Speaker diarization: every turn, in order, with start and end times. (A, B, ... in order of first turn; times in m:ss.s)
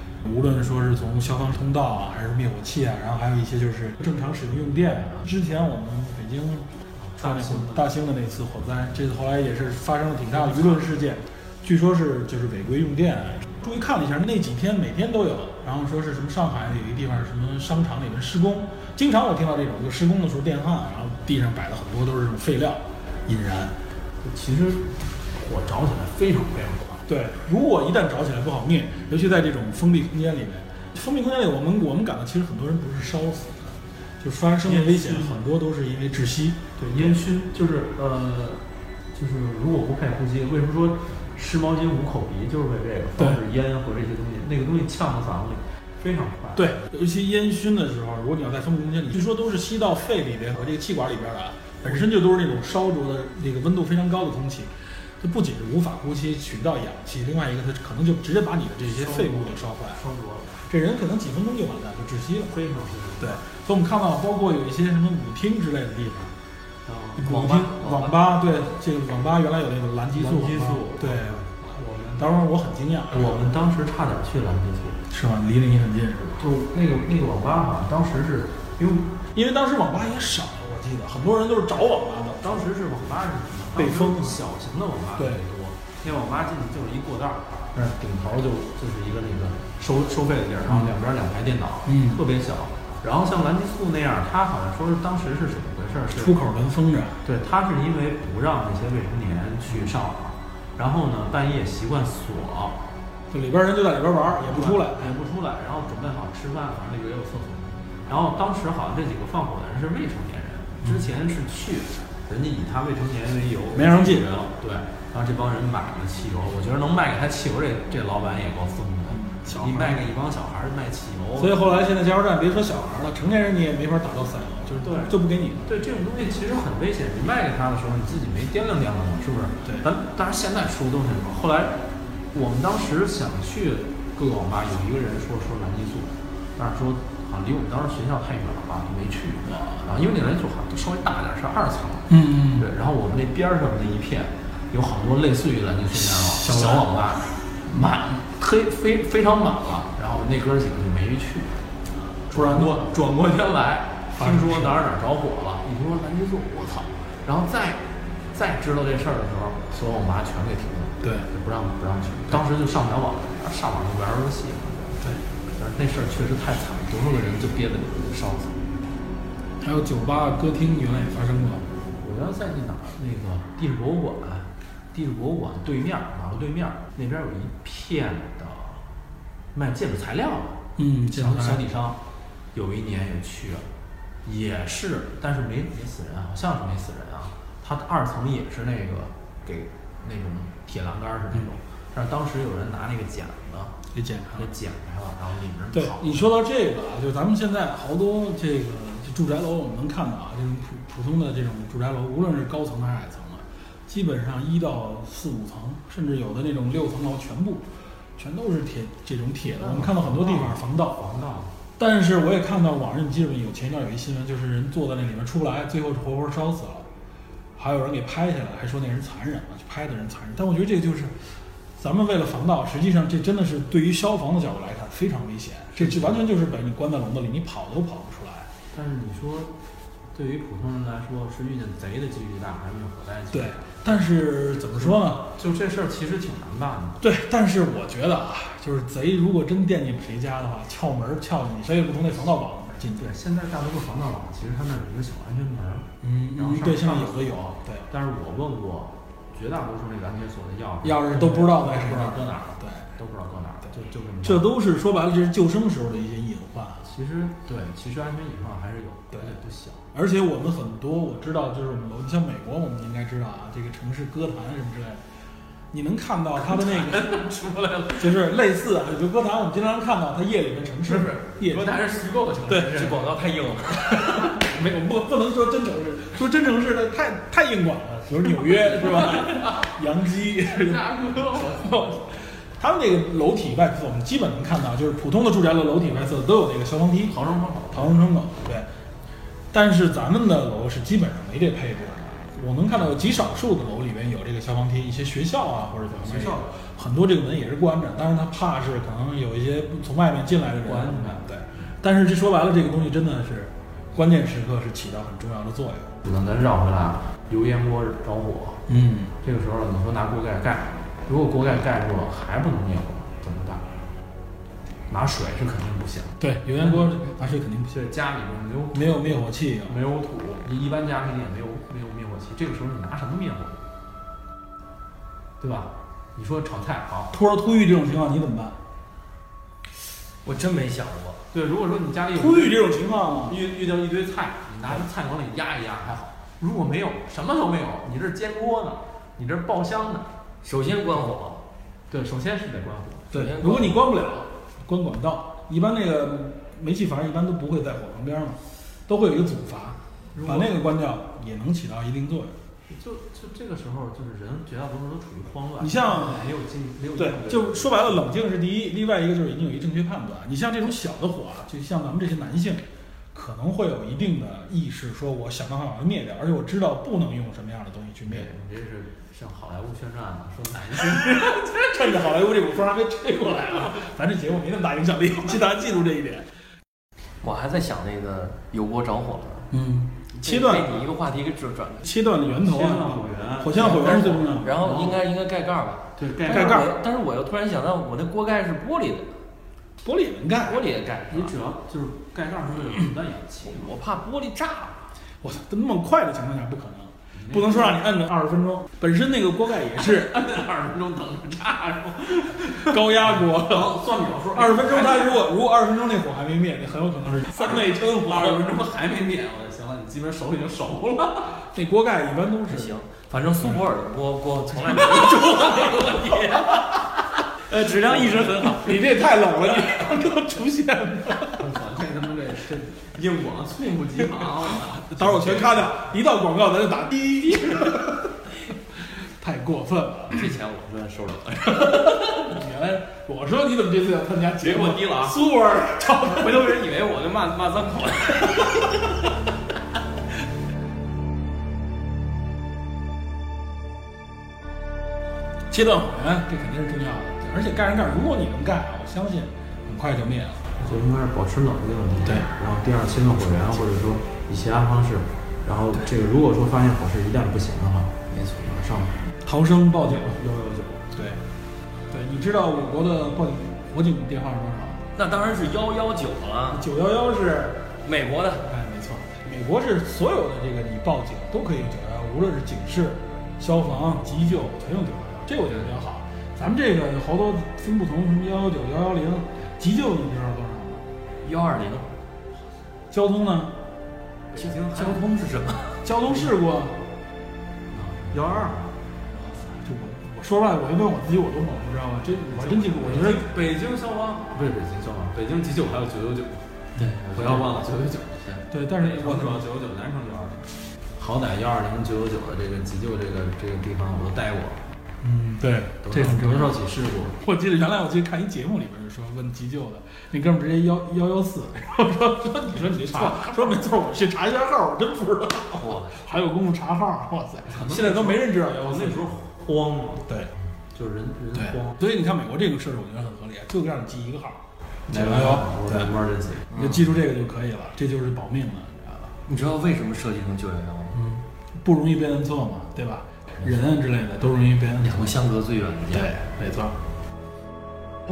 0:00.2-0:06.7 A
0:07.0-0:07.9 B
0:07.2-0:23.7 A
0:10.4-0:10.8 B
0:24.2-0:27.0 B
0:27.1-0:37.2 A
0:34.6-0:35.4 B
0:36.8-0:46.8 B
0:46.6-1:00.0 A
0:58.8-1:00.6 B
1:00.7-1:02.6 A
1:02.4-1:03.4 B
1:03.2-1:06.3 A
1:06.8-1:07.3 B
1:07.2-1:11.4 A
1:07.2-1:08.2 C
1:10.1-1:12.2 B
1:12.2-1:13.5 A
1:13.1-1:15.0 B
1:15.1-1:16.4 A
1:16.4-1:19.2 B
1:19.3-1:22.6 A
1:22.4-1:36.4 B
1:23.8-1:24.4 A
1:25.2-1:25.4 A
1:30.7-1:30.9 A
1:31.8-1:32.2 A
1:36.1-1:37.2 A
1:37.2-1:42.8 B
1:43.3-1:45.1 A
1:44.4-2:01.5 B
1:53.7-1:54.3 A
1:59.1-2:00.0 A
2:01.4-2:05.7 A
2:04.8-2:31.6 B
2:22.1-2:22.7 A
2:25.9-2:27.1 A
2:32.2-2:32.9 A
2:32.3-2:45.0 B
2:34.2-2:34.8 A
2:41.0-2:41.3 A
2:45.5-2:48.6 B
2:49.6-2:51.7 A
2:52.0-2:58.8 B
2:59.5-3:02.0 B
3:00.8-3:01.6 A
3:02.5-3:03.7 B
3:04.2-3:13.8 B
3:13.9-3:14.5 A
3:14.3-3:16.4 B
3:15.7-3:31.0 A
3:29.6-3:31.5 B
3:31.8-3:36.9 A
3:37.6-3:41.2 A
3:41.8-3:48.5 A
3:45.8-3:46.2 B
3:48.7-3:49.5 B
3:50.1-3:54.1 B
3:53.3-3:55.3 A
3:54.7-3:57.0 B
3:57.0-4:03.1 A
4:03.0-4:14.5 B
4:06.0-4:07.9 A
4:10.8-4:12.9 A
4:14.2-4:16.9 A
4:16.8-4:19.8 B
4:19.1-4:19.4 A
4:19.9-4:25.0 A
4:25.7-4:27.2 A
4:26.5-4:28.2 B
4:28.0-4:31.7 A
4:30.8-4:33.1 B
4:32.5-4:32.8 A
4:32.6-4:34.4 C
4:33.9-4:42.0 A
4:38.5-4:39.7 B
4:40.4-4:42.1 B
4:42.6-4:47.2 A
4:47.1-4:48.1 B
4:47.7-4:48.7 A
4:49.5-5:05.9 A
4:56.0-4:56.5 B
5:00.6-5:01.2 B
5:06.0-5:08.6 B
5:08.7-5:09.1 A
5:09.2-5:13.8 B
5:14.9-5:17.0 B
5:16.2-5:17.8 A
5:17.7-5:23.6 B
5:18.7-5:19.8 A
5:25.4-5:27.1 B
5:27.1-5:28.6 A
5:30.2-5:31.2 C
5:31.3-5:32.7 B
5:32.1-5:33.4 A
5:33.2-5:40.1 B
5:40.4-5:41.4 C
5:41.9-5:43.1 B
5:43.1-5:52.4 A
5:43.1-5:43.8 C
5:50.1-5:50.6 B
5:52.7-5:58.1 B
5:55.6-5:56.3 A
5:57.0-6:08.3 A
6:08.0-6:11.5 B
6:10.8-6:16.3 A
6:17.2-6:19.5 C
6:19.5-6:20.8 A
6:20.1-6:22.0 C
6:21.8-6:24.6 A
6:22.3-6:25.0 B
6:23.6-6:29.1 C
6:26.0-6:26.6 B
6:26.3-6:26.8 A
6:29.8-6:30.7 A
6:30.4-6:31.3 C
6:31.1-6:33.8 B
6:33.4-6:34.9 C
6:35.2-6:40.2 A
6:37.1-6:37.8 B
6:39.8-6:45.2 B
6:42.4-6:43.8 A
6:44.3-6:48.5 A
6:47.4-6:51.4 B
6:51.4-6:52.8 A
6:52.5-6:58.8 C
6:54.7-6:56.6 A
6:57.9-6:58.4 B
6:57.9-7:01.5 A
7:01.3-7:05.7 B
7:04.6-7:08.1 A
7:09.0-7:10.3 A
7:10.1-7:12.2 C
7:11.4-7:16.5 A
7:14.4-7:15.2 C
7:14.5-7:15.2 B
7:15.8-7:18.8 C
7:25.5-7:30.4 A
7:30.6-7:39.0 B
7:38.1-7:38.4 C
7:39.2-7:40.2 A
7:39.9-7:40.9 B
7:40.9-7:41.2 A
7:41.9-7:44.8 A
7:45.0-7:46.6 C
7:46.5-7:47.7 A
7:47.8-7:48.4 C
7:48.4-8:00.8 A
8:01.2-8:01.9 C
8:02.9-8:03.6 A
8:04.3-8:05.1 B
8:04.7-8:05.7 C
8:04.8-8:05.1 A
8:05.8-8:06.8 A
8:07.7-8:08.7 B
8:09.5-8:13.3 A
8:12.3-8:16.5 B
8:16.8-8:17.0 A
8:17.0-8:20.4 B
8:17.1-8:17.4 C
8:18.5-8:19.4 A
8:21.0-8:24.6 B
8:25.0-8:26.6 A
8:25.8-8:27.2 B
8:27.2-8:39.1 A
8:32.6-8:33.5 B
8:35.5-8:36.0 C
8:37.5-8:40.1 B
8:40.7-8:41.8 B
8:41.3-8:45.9 A
8:44.9-8:46.6 B
8:46.5-8:49.2 A
8:46.5-8:46.9 C
8:49.2-8:51.0 C
8:50.9-8:55.2 A
8:53.4-8:53.7 C
8:54.8-8:56.2 C
8:55.9-8:56.8 A